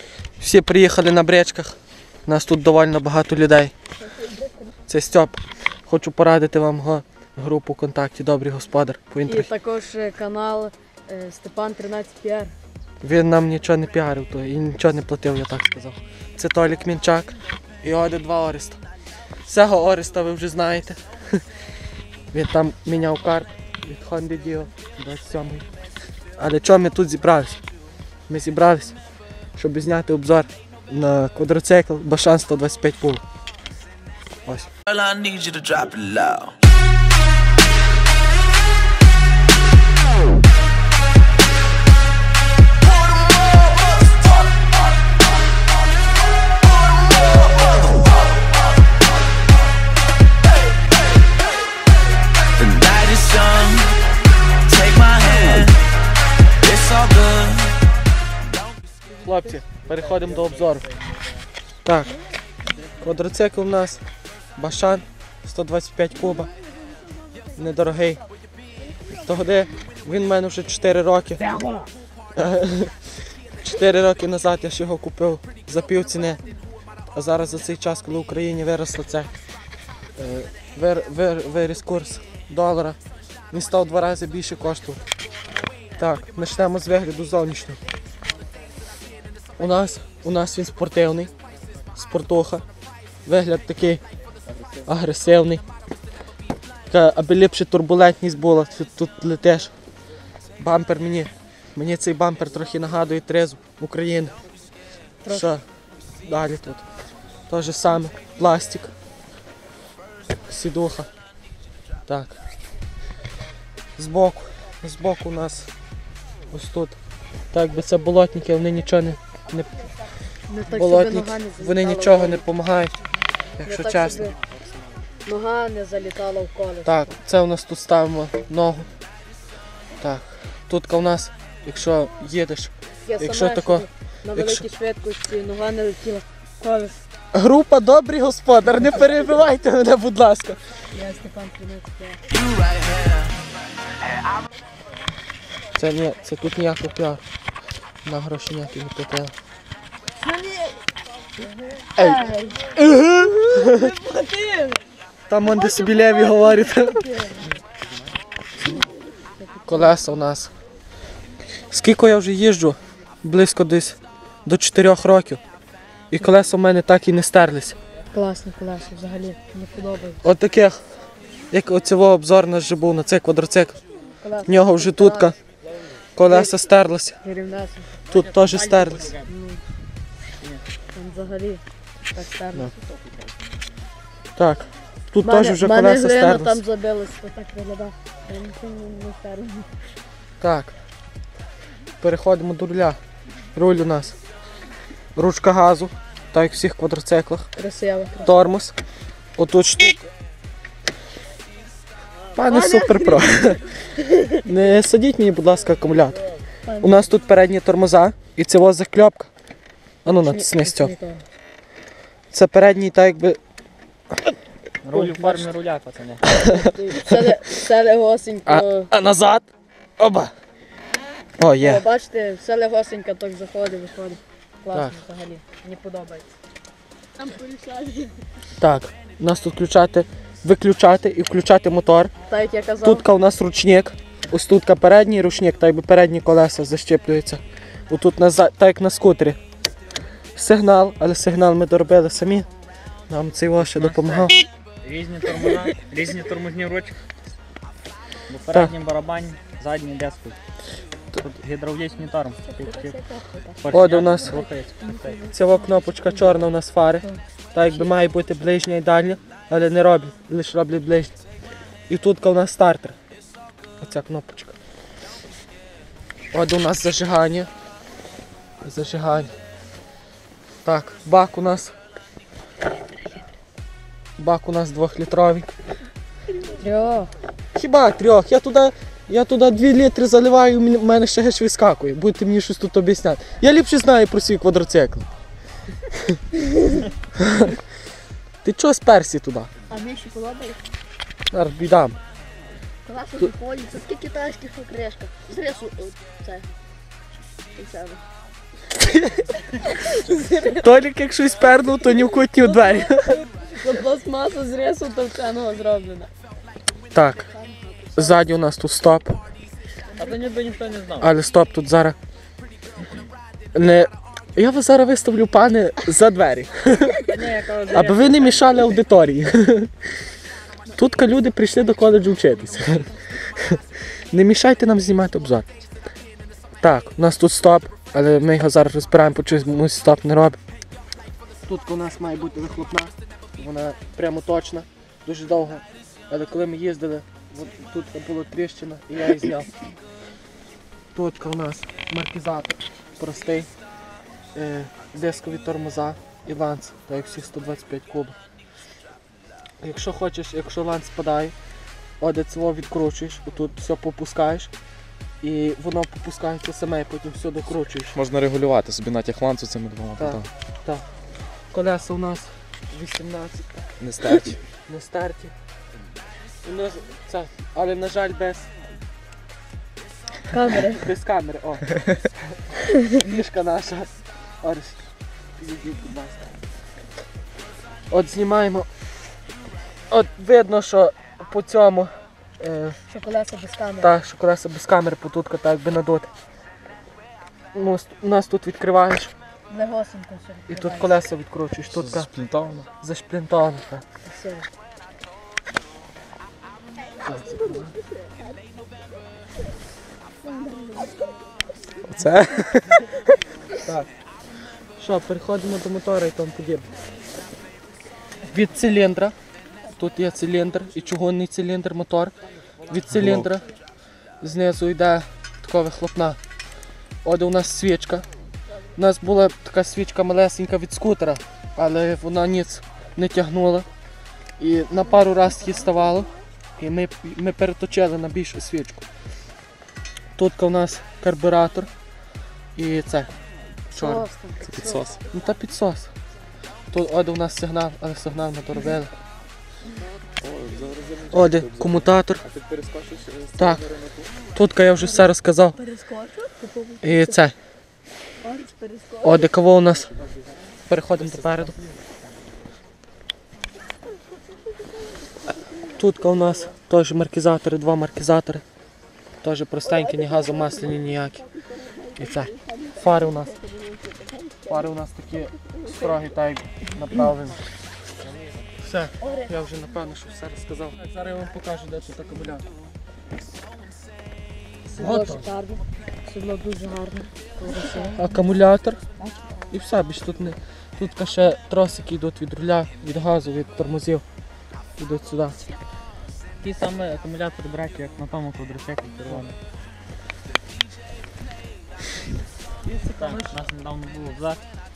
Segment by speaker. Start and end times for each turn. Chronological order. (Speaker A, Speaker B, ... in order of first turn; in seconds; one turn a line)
Speaker A: 0.4-3.7
Speaker A: 4.9-9.5
Speaker B: 9.2-12.5
Speaker A: 13.0-18.8
Speaker A: 19.4-21.4
Speaker A: 22.3-25.7
Speaker A: 26.4-27.6
Speaker A: 28.3-29.0
Speaker A: 29.6-33.2
Speaker C: 34.9-36.6
Speaker C: 52.6-54.0
Speaker C: 54.7-55.8
Speaker C: 56.6-57.9
Speaker A: 59.2-60.9
Speaker D: 59.9-61.5
Speaker A: 61.9-62.1
Speaker A: 63.0-64.0
Speaker A: 64.6-66.5
Speaker A: 67.6-68.2
Speaker A: 69.1-71.5
Speaker A: 72.4-76.4
Speaker A: 77.1-79.3
Speaker A: 80.2-83.0
Speaker A: 83.5-85.0
Speaker A: 86.0-87.8
Speaker A: 89.6-91.3
Speaker A: 92.0-92.7
Speaker A: 93.2-94.0
Speaker D: 94.5-94.8
Speaker A: 94.8-95.6
Speaker A: 96.9-99.7
Speaker A: 100.6-104.4
Speaker A: 105.3-105.7
Speaker A: 106.2-106.9
Speaker A: 107.5-108.9
Speaker A: 110.5-111.1
Speaker A: 112.1-112.4
Speaker A: 114.0-115.7
Speaker A: 116.5-117.0
Speaker A: 117.5-119.9
Speaker B: 120.5-122.4
Speaker A: 120.7-123.0
Speaker A: 123.6-124.3
Speaker B: 123.6-124.4
Speaker B: 125.2-127.0
Speaker A: 126.8-128.9
Speaker A: 130.0-134.7
Speaker B: 133.1-137.0
Speaker A: 137.3-140.6
Speaker B: 140.9-142.2
Speaker C: 142.3-143.4
Speaker C: 144.0-144.5
Speaker A: 145.8-147.2
Speaker A: 148.1-149.3
Speaker B: 150.2-150.8
Speaker A: 152.0-153.9
Speaker B: 152.0-152.7
Speaker B: 153.7-154.8
Speaker A: 155.3-157.1
Speaker B: 155.9-157.4
Speaker B: 159.4-160.0
Speaker A: 159.7-160.5
Speaker A: 161.7-165.4
Speaker A: 166.1-167.8
Speaker B: 168.1-170.2
Speaker A: 170.2-170.8
Speaker A: 171.5-173.8
Speaker B: 174.2-175.3
Speaker A: 174.4-175.4
Speaker A: 176.2-177.2
Speaker B: 177.2-177.9
Speaker A: 178.1-179.2
Speaker D: 178.1-179.3
Speaker B: 179.2-179.6
Speaker B: 180.9-182.8
Speaker D: 182.8-183.5
Speaker A: 184.4-186.6
Speaker B: 185.2-189.8
Speaker A: 190.4-190.8
Speaker A: 192.0-193.0
Speaker A: 193.6-194.2
Speaker A: 195.2-197.5
Speaker B: 197.6-198.4
Speaker A: 198.2-198.8
Speaker A: 199.4-200.1
Speaker A: 202.3-203.7
Speaker B: 202.5-203.4
Speaker B: 204.0-204.4
Speaker A: 204.4-206.3
Speaker B: 206.7-207.0
Speaker A: 206.8-209.3
Speaker A: 210.1-210.9
Speaker B: 210.2-211.2
Speaker A: 212.3-213.4
Speaker D: 214.8-216.3
Speaker A: 214.9-215.5
Speaker A: 216.3-217.4
Speaker B: 216.3-218.9
Speaker A: 218.5-219.5
Speaker A: 220.0-220.3
Speaker A: 221.4-221.8
Speaker B: 221.6-226.3
Speaker A: 224.7-225.0
Speaker B: 227.2-228.2
Speaker A: 228.6-232.1
Speaker B: 232.3-233.0
Speaker A: 232.8-239.4
Speaker A: 240.3-242.5
Speaker A: 243.1-244.4
Speaker D: 243.7-244.3
Speaker D: 244.8-246.9
Speaker D: 248.3-250.4
Speaker D: 251.2-253.1
Speaker B: 252.5-256.3
Speaker D: 253.6-255.2
Speaker A: 253.7-254.4
Speaker A: 255.3-261.2
Speaker A: 261.9-263.0
Speaker A: 263.8-264.6
Speaker A: 266.3-267.5
Speaker A: 268.6-269.3
Speaker A: 270.6-271.7
Speaker A: 274.2-275.5
Speaker B: 276.4-277.1
Speaker A: 277.6-285.1
Speaker A: 288.4-289.5
Speaker B: 289.7-290.6
Speaker A: 291.3-292.0
Speaker B: 292.9-296.5
Speaker B: 297.6-298.0
Speaker A: 298.8-299.3
Speaker B: 299.6-300.6
Speaker A: 300.6-303.2
Speaker B: 302.6-306.1
Speaker A: 306.9-307.3
Speaker B: 307.3-307.9
Speaker A: 307.9-309.2
Speaker D: 310.0-311.1
Speaker A: 311.0-312.0
Speaker A: 313.5-319.8
Speaker D: 317.1-318.5
Speaker A: 320.7-325.5
Speaker A: 326.6-330.4
Speaker A: 331.5-339.6
Speaker A: 340.9-343.5
Speaker A: 344.4-348.2
Speaker A: 349.6-351.4
Speaker A: 352.0-354.5
Speaker A: 355.2-358.0
Speaker E: 357.9-360.3
Speaker A: 360.0-360.8
Speaker A: 361.5-363.7
Speaker E: 363.8-364.4
Speaker A: 364.7-365.3
Speaker A: 366.4-368.5
Speaker B: 370.3-370.9
Speaker A: 370.8-376.4
Speaker A: 377.9-378.7
Speaker A: 379.9-382.8
Speaker B: 382.9-383.9
Speaker A: 383.8-386.1
Speaker A: 387.5-389.1
Speaker B: 389.5-390.9
Speaker A: 390.5-392.1
Speaker E: 391.8-392.7
Speaker A: 392.8-393.9
Speaker B: 394.1-394.5
Speaker A: 397.0-397.8
Speaker E: 401.9-402.7
Speaker A: 403.6-403.9
Speaker A: 404.8-406.7
Speaker A: 408.3-409.1
Speaker A: 409.8-412.1
Speaker A: 412.7-413.5
Speaker E: 412.9-413.3
Speaker A: 414.2-416.2
Speaker A: 417.0-418.1
Speaker A: 418.8-423.7
Speaker A: 424.4-428.9
Speaker A: 430.2-431.7
Speaker A: 432.6-433.1
Speaker A: 433.7-434.1
Speaker B: 433.8-434.8
Speaker E: 434.4-435.0
Speaker A: 435.1-435.9
Speaker A: 436.7-438.9
Speaker E: 440.2-444.1
Speaker A: 441.1-442.2
Speaker A: 443.4-443.6
Speaker A: 444.3-445.6
Speaker B: 445.7-446.8
Speaker A: 446.8-447.4
Speaker B: 448.3-448.8
Speaker A: 449.0-449.9
Speaker A: 450.7-451.6
Speaker A: 455.7-458.4
Speaker A: 459.2-461.3
Speaker A: 461.9-463.4
Speaker A: 464.4-467.4
Speaker A: 468.6-472.5
Speaker A: 474.7-475.3
Speaker B: 474.8-478.1
Speaker A: 477.9-478.8
Speaker A: 479.5-484.0
Speaker A: 484.8-485.4
Speaker D: 486.4-489.4
Speaker A: 492.7-493.4
Speaker D: 492.9-494.4